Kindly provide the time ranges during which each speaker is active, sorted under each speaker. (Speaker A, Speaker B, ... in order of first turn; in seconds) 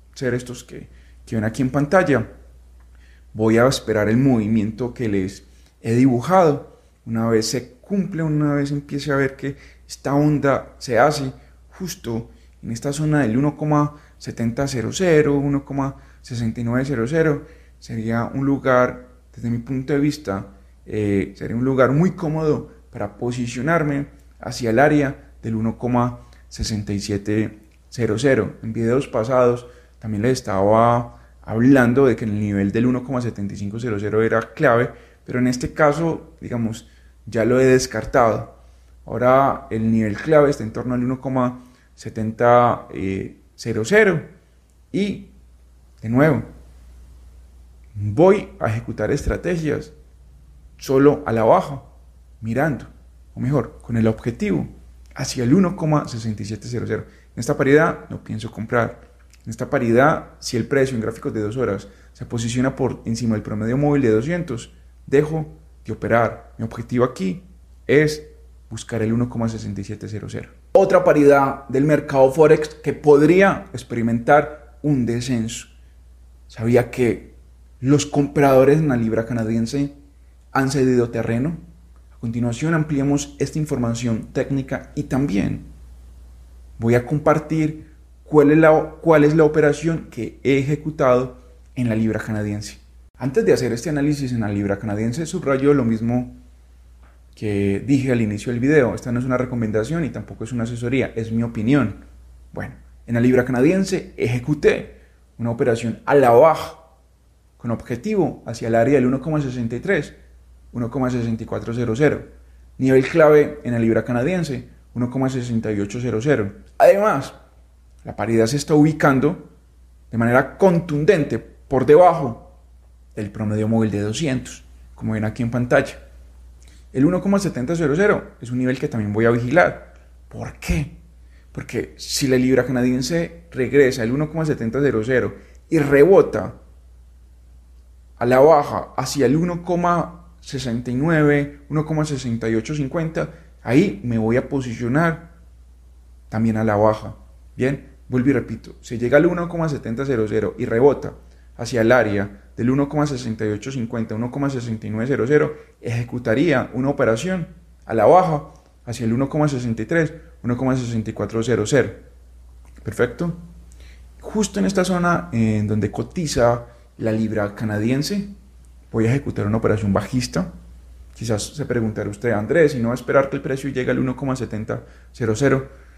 Speaker A: 0.1-2.3, 3.3-44.2, 44.9-45.3, 46.0-46.5, 48.0-49.9, 50.8-75.7, 76.5-79.9, 80.5-81.6, 82.1-85.7, 86.8-96.4, 97.3-106.9, 107.6-110.2, 110.7-117.3, 118.0-119.5, 120.1-122.5, 123.1-126.0, 126.9-131.0, 131.5-136.6, 138.2-145.3, 146.3-162.0, 162.8-163.4, 164.2-168.3, 168.9-170.5, 171.1-175.7